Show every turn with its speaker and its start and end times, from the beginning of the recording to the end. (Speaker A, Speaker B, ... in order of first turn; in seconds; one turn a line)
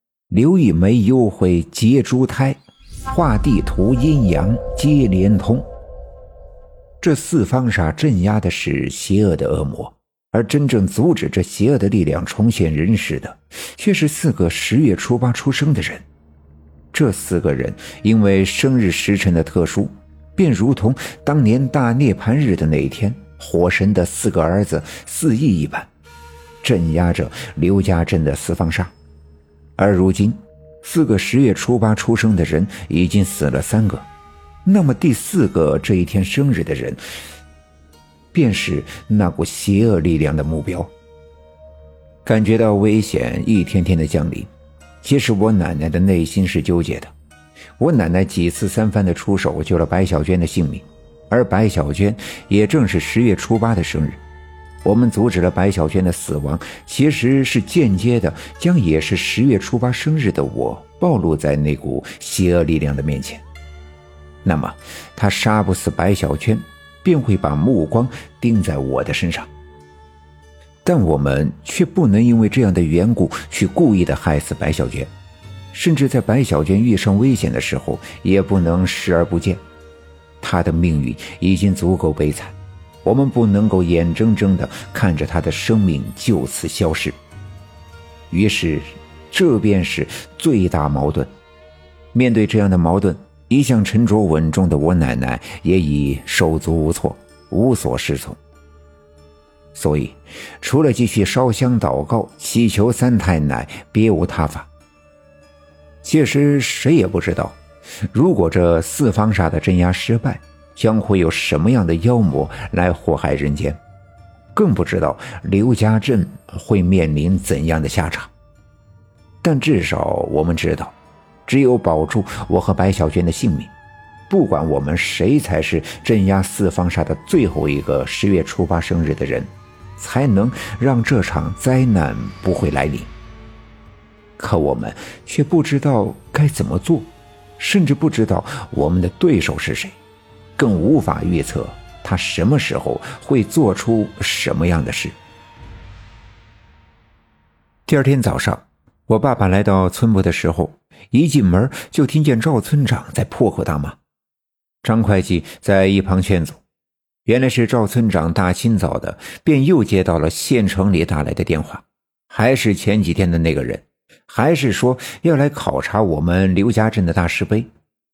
Speaker A: 0.3-5.7
Speaker A: 7.0-16.0
Speaker A: 16.9-25.9
Speaker A: 26.6-28.9
Speaker A: 29.8-34.1
Speaker A: 34.6-37.0
Speaker A: 38.3-40.9
Speaker A: 42.2-44.5
Speaker A: 45.0-47.1
Speaker A: 47.8-54.2
Speaker A: 54.8-63.4
Speaker A: 64.4-69.5
Speaker A: 70.8-75.1
Speaker A: 75.7-79.6
Speaker A: 80.4-87.2
Speaker A: 88.3-91.3
Speaker A: 92.1-98.4
Speaker A: 99.7-104.7
Speaker A: 106.0-107.6
Speaker A: 108.1-113.8
Speaker A: 114.5-118.3
Speaker A: 119.4-120.9
Speaker A: 121.5-123.7
Speaker A: 124.3-133.1
Speaker A: 134.4-137.1
Speaker A: 137.6-140.0
Speaker A: 140.6-145.1
Speaker A: 147.9-154.0
Speaker A: 154.8-156.6
Speaker A: 157.2-167.7